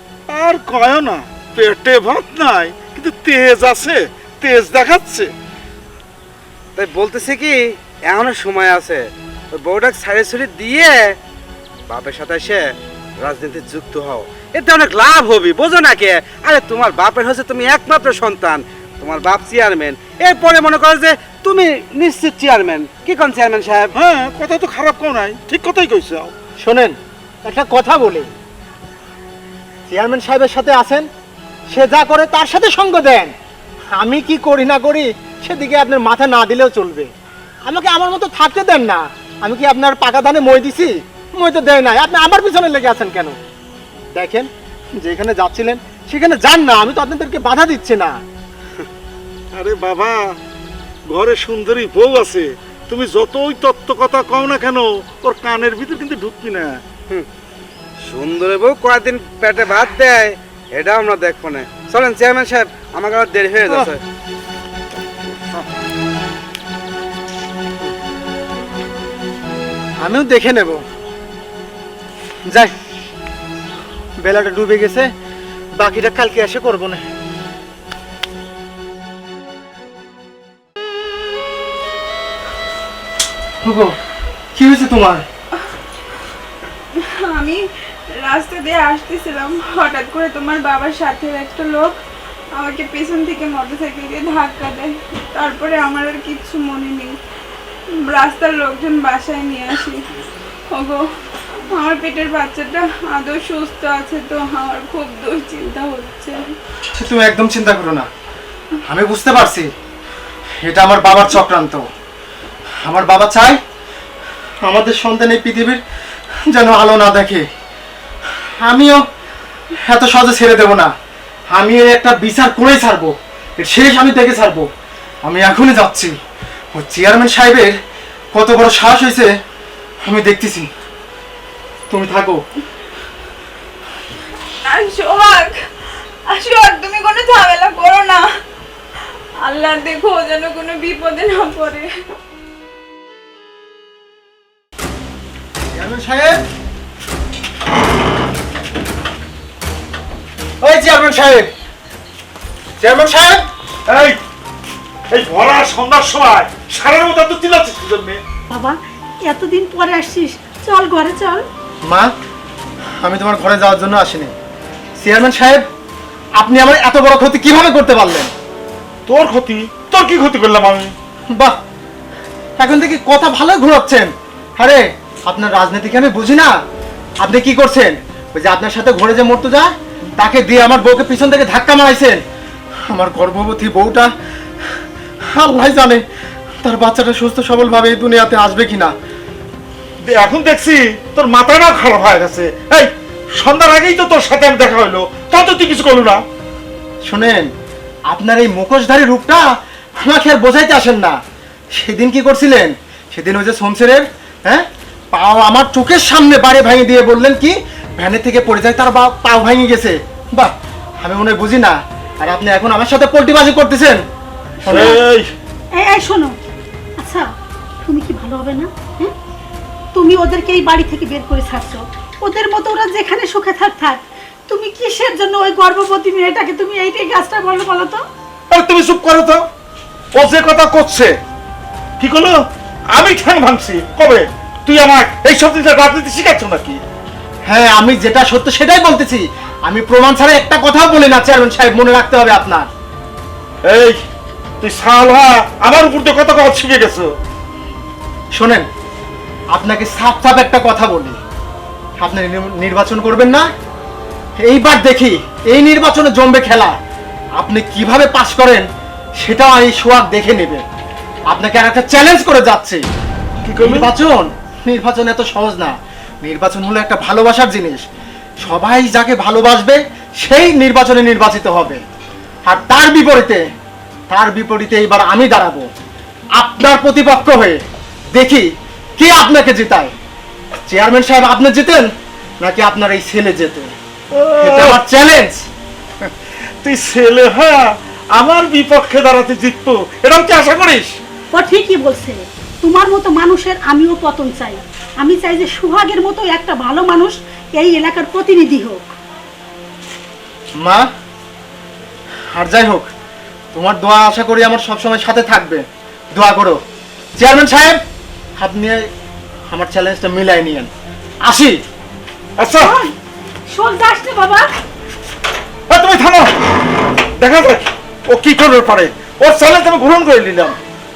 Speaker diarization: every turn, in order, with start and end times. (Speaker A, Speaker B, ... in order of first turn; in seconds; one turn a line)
Speaker A: 0.3-5.3
Speaker B: 6.8-11.2
Speaker B: 11.9-12.7
Speaker B: 13.2-23.9
Speaker A: 23.9-26.3
Speaker C: 26.6-28.3
Speaker C: 29.9-31.1
Speaker C: 31.7-33.3
Speaker C: 33.9-37.1
Speaker C: 37.6-43.4
Speaker C: 44.1-48.2
Speaker A: 49.5-50.3
Speaker A: 51.1-56.8
Speaker B: 58.1-64.0
Speaker C: 70.0-70.8
Speaker C: 72.5-72.7
Speaker C: 74.2-75.1
Speaker C: 75.8-77.0
Speaker C: 83.6-84.0
Speaker C: 84.5-85.2
Speaker D: 86.9-92.0
Speaker D: 92.5-97.1
Speaker D: 98.0-100.2
Speaker D: 100.7-101.1
Speaker D: 101.7-106.5
Speaker C: 107.0-108.1
Speaker C: 108.8-109.7
Speaker C: 110.6-111.9
Speaker C: 112.8-113.6
Speaker C: 114.6-115.8
Speaker C: 116.5-117.5
Speaker C: 118.6-119.0
Speaker C: 119.8-120.9
Speaker C: 121.5-124.7
Speaker C: 125.2-126.1
Speaker C: 126.7-127.8
Speaker C: 128.3-129.3
Speaker C: 130.0-130.7
Speaker C: 131.9-132.4
Speaker D: 134.6-135.6
Speaker D: 136.3-138.2
Speaker D: 139.4-141.9
Speaker C: 145.7-146.4
Speaker C: 150.6-151.5
Speaker C: 152.8-153.4
Speaker A: 153.9-154.2
Speaker A: 155.1-158.2
Speaker E: 158.5-161.5
Speaker C: 161.8-162.1
Speaker C: 163.0-164.3
Speaker C: 165.0-165.6
Speaker C: 166.4-168.3
Speaker A: 169.1-170.9
Speaker C: 171.3-171.6
Speaker C: 172.6-176.5
Speaker C: 177.2-182.2
Speaker C: 182.9-184.1
Speaker C: 184.8-186.0
Speaker C: 186.6-188.9
Speaker A: 190.1-196.2
Speaker C: 197.1-197.5
Speaker C: 198.1-199.5
Speaker C: 200.0-201.2
Speaker C: 201.7-214.0
Speaker C: 214.6-215.0
Speaker A: 214.7-215.3
Speaker E: 214.7-215.0
Speaker E: 215.8-216.3
Speaker E: 217.0-217.3
Speaker E: 217.8-219.1
Speaker E: 219.9-228.0
Speaker A: 228.5-229.4
Speaker A: 230.1-231.1
Speaker A: 232.0-232.4
Speaker A: 232.9-236.8
Speaker C: 237.5-242.7
Speaker A: 243.6-244.0
Speaker A: 244.6-247.1
Speaker C: 248.3-248.7
Speaker C: 249.5-251.2
Speaker C: 252.0-253.5
Speaker C: 254.4-256.8
Speaker C: 257.4-258.7
Speaker C: 259.2-260.6
Speaker C: 261.3-262.8
Speaker A: 263.4-263.9
Speaker C: 263.6-267.8
Speaker C: 268.4-271.8
Speaker C: 272.5-273.4
Speaker C: 274.1-275.7
Speaker C: 276.4-277.6
Speaker C: 278.1-279.9
Speaker C: 280.6-281.9
Speaker C: 282.4-283.7
Speaker A: 284.1-284.8
Speaker C: 284.4-285.5
Speaker A: 286.6-290.9
Speaker E: 291.3-298.9
Speaker C: 300.6-300.9
Speaker C: 302.3-302.9
Speaker C: 303.5-306.6
Speaker C: 307.2-307.8
Speaker C: 308.4-308.9
Speaker C: 309.5-310.7
Speaker C: 311.2-311.6
Speaker A: 312.4-312.8
Speaker E: 312.6-312.9
Speaker E: 313.5-314.5
Speaker A: 315.7-316.4
Speaker A: 317.2-320.5